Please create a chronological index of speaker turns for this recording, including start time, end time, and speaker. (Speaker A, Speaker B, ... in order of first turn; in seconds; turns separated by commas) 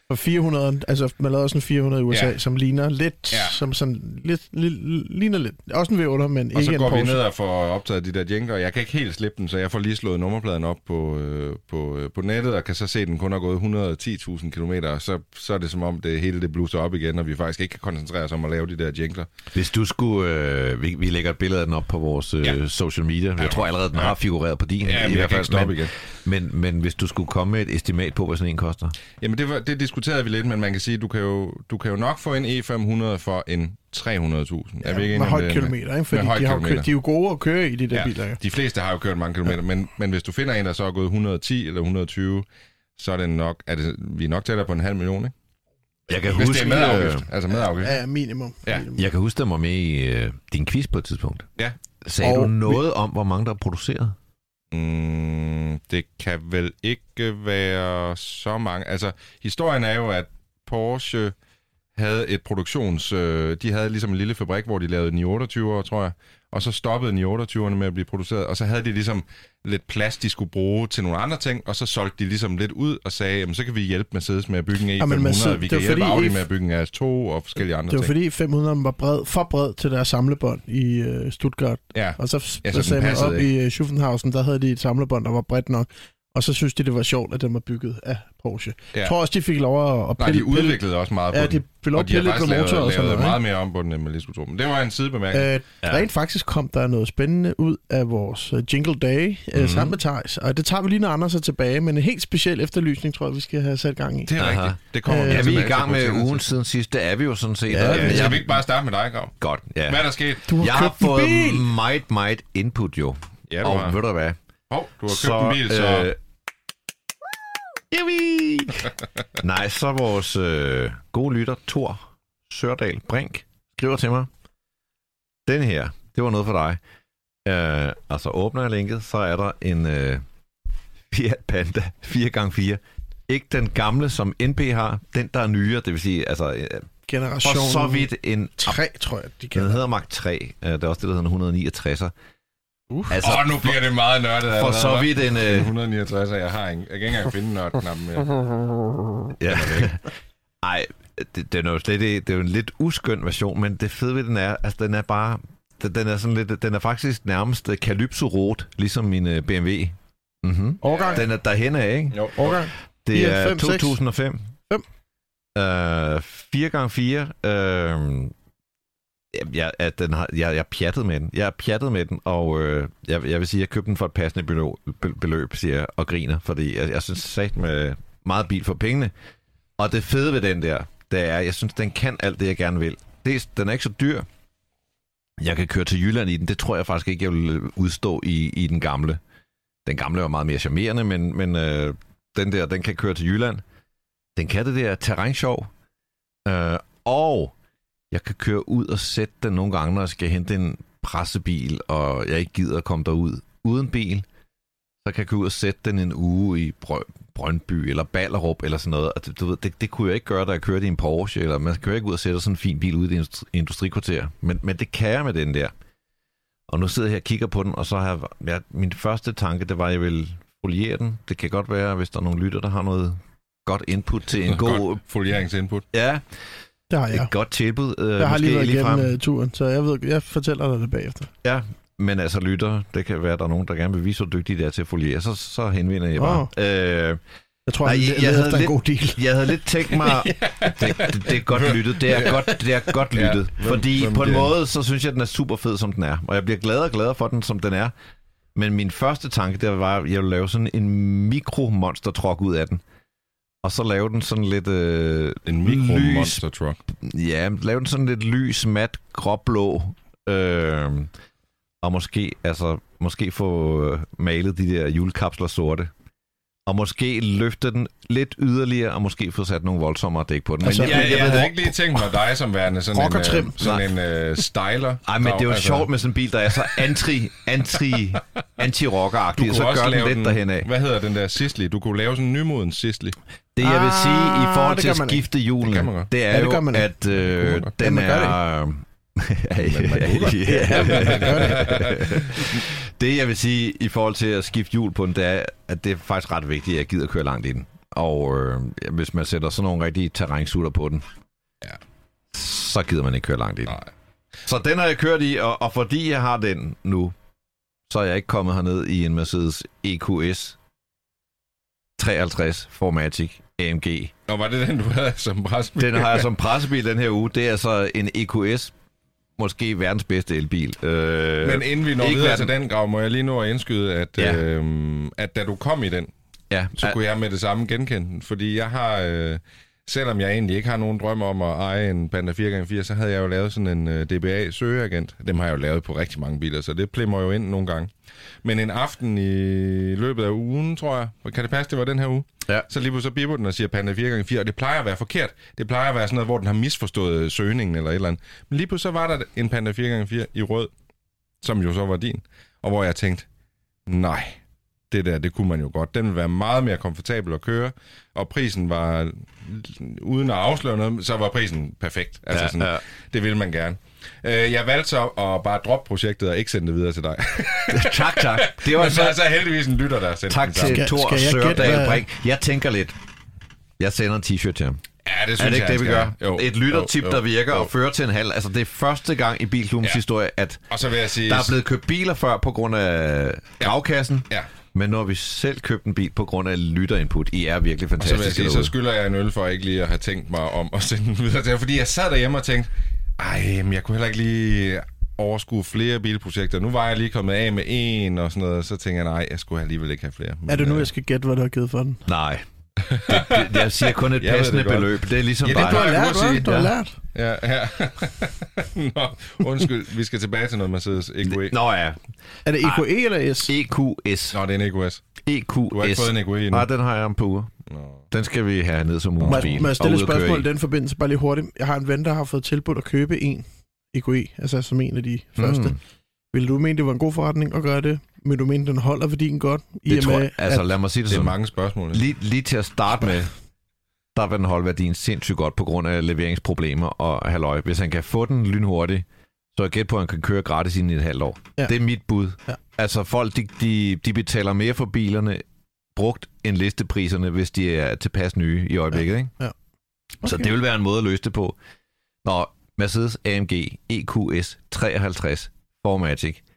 Speaker A: 0.1-7.2, Speaker B: 2.1-2.4, Speaker B: 3.3-3.6, Speaker B: 6.5-19.3, Speaker C: 19.5-28.9, Speaker B: 23.4-24.2, Speaker B: 24.8-25.9, Speaker B: 29.2-36.9, Speaker A: 34.8-38.4, Speaker B: 37.9-42.5, Speaker B: 43.0-45.3, Speaker C: 46.1-47.3, Speaker B: 46.3-48.0, Speaker A: 47.8-49.0, Speaker C: 49.0-51.5, Speaker C: 52.0-54.2, Speaker A: 52.2-52.8, Speaker B: 54.7-61.4, Speaker B: 62.0-78.1, Speaker A: 75.0-76.5, Speaker A: 77.9-90.8, Speaker B: 81.9-83.5, Speaker B: 90.2-95.5, Speaker A: 91.3-93.4, Speaker A: 95.3-104.3, Speaker B: 99.6-100.0, Speaker B: 104.3-106.4, Speaker C: 104.4-108.5, Speaker A: 105.1-105.6, Speaker A: 107.7-108.4, Speaker B: 107.8-110.4, Speaker C: 109.4-114.4, Speaker A: 110.5-111.7, Speaker B: 113.5-114.0, Speaker B: 114.7-116.1, Speaker C: 115.1-116.2, Speaker C: 117.9-124.3, Speaker C: 125.5-126.8, Speaker C: 127.5-130.2, Speaker C: 131.1-136.9, Speaker A: 137.1-139.8, Speaker C: 137.4-138.8, Speaker C: 139.6-142.1, Speaker A: 142.9-143.2, Speaker C: 143.1-143.8, Speaker B: 143.2-148.4, Speaker C: 144.5-145.7, Speaker C: 149.4-150.1, Speaker B: 149.5-149.9, Speaker C: 150.6-162.5, Speaker A: 160.8-161.2, Speaker B: 162.1-162.6, Speaker A: 162.4-164.0, Speaker C: 163.1-164.5, Speaker C: 165.6-168.3, Speaker C: 169.3-179.1, Speaker C: 179.8-184.3, Speaker C: 185.4-189.2, Speaker C: 189.8-193.6, Speaker C: 194.3-195.7, Speaker C: 196.4-197.5, Speaker C: 198.1-204.3, Speaker C: 205.0-215.7, Speaker C: 216.7-225.0, Speaker B: 224.4-225.9, Speaker C: 225.9-226.3, Speaker A: 226.9-227.3, Speaker C: 227.1-229.2, Speaker A: 228.2-231.3, Speaker C: 231.4-237.2, Speaker A: 236.2-236.5, Speaker A: 237.7-239.5, Speaker C: 237.8-247.9, Speaker B: 240.4-242.5, Speaker B: 243.1-244.5, Speaker C: 248.6-252.8, Speaker C: 253.6-256.4, Speaker B: 255.5-256.8, Speaker C: 256.9-261.1, Speaker C: 261.8-265.9, Speaker C: 266.7-271.7, Speaker A: 270.6-271.5, Speaker B: 270.8-275.9, Speaker A: 272.9-273.6, Speaker C: 275.1-280.7, Speaker B: 279.4-283.2, Speaker C: 283.6-301.1, Speaker A: 283.6-285.2, Speaker B: 285.6-286.1, Speaker A: 286.3-286.9, Speaker B: 287.3-287.7, Speaker A: 287.8-288.4, Speaker B: 289.6-292.6, Speaker A: 290.4-292.3, Speaker C: 302.3-303.8, Speaker C: 304.5-307.2, Speaker C: 307.9-310.6, Speaker C: 312.0-314.1, Speaker B: 314.3-316.3, Speaker C: 315.8-318.7, Speaker C: 319.4-322.5, Speaker B: 321.4-326.1, Speaker C: 324.2-324.4, Speaker C: 326.5-327.0, Speaker B: 326.8-337.9, Speaker B: 338.4-350.7, Speaker B: 351.4-353.3, Speaker B: 353.9-354.4, Speaker B: 354.9-370.8, Speaker C: 362.3-362.8, Speaker C: 367.7-369.2, Speaker C: 370.3-373.0, Speaker A: 370.6-372.0, Speaker C: 373.8-374.8, Speaker B: 375.1-377.7, Speaker C: 375.4-380.7, Speaker B: 380.7-381.6, Speaker C: 381.2-388.7, Speaker B: 388.0-400.9, Speaker A: 400.5-402.0, Speaker C: 402.1-402.4, Speaker B: 402.9-406.5, Speaker C: 403.0-406.7, Speaker A: 405.5-406.9, Speaker B: 407.1-411.6, Speaker C: 411.2-412.0, Speaker A: 412.4-413.5, Speaker C: 412.6-412.9, Speaker C: 413.4-414.4, Speaker B: 414.3-415.2, Speaker C: 415.3-417.5, Speaker B: 415.7-416.7, Speaker B: 417.7-418.1, Speaker C: 418.1-420.5, Speaker B: 419.2-419.6, Speaker A: 419.3-425.8, Speaker C: 425.4-425.8, Speaker A: 426.3-430.6, Speaker C: 429.9-431.4, Speaker B: 431.1-432.0, Speaker C: 431.9-433.3, Speaker C: 434.1-445.4, Speaker C: 445.9-449.4, Speaker A: 450.2-450.5, Speaker C: 450.2-451.6, Speaker C: 452.2-456.4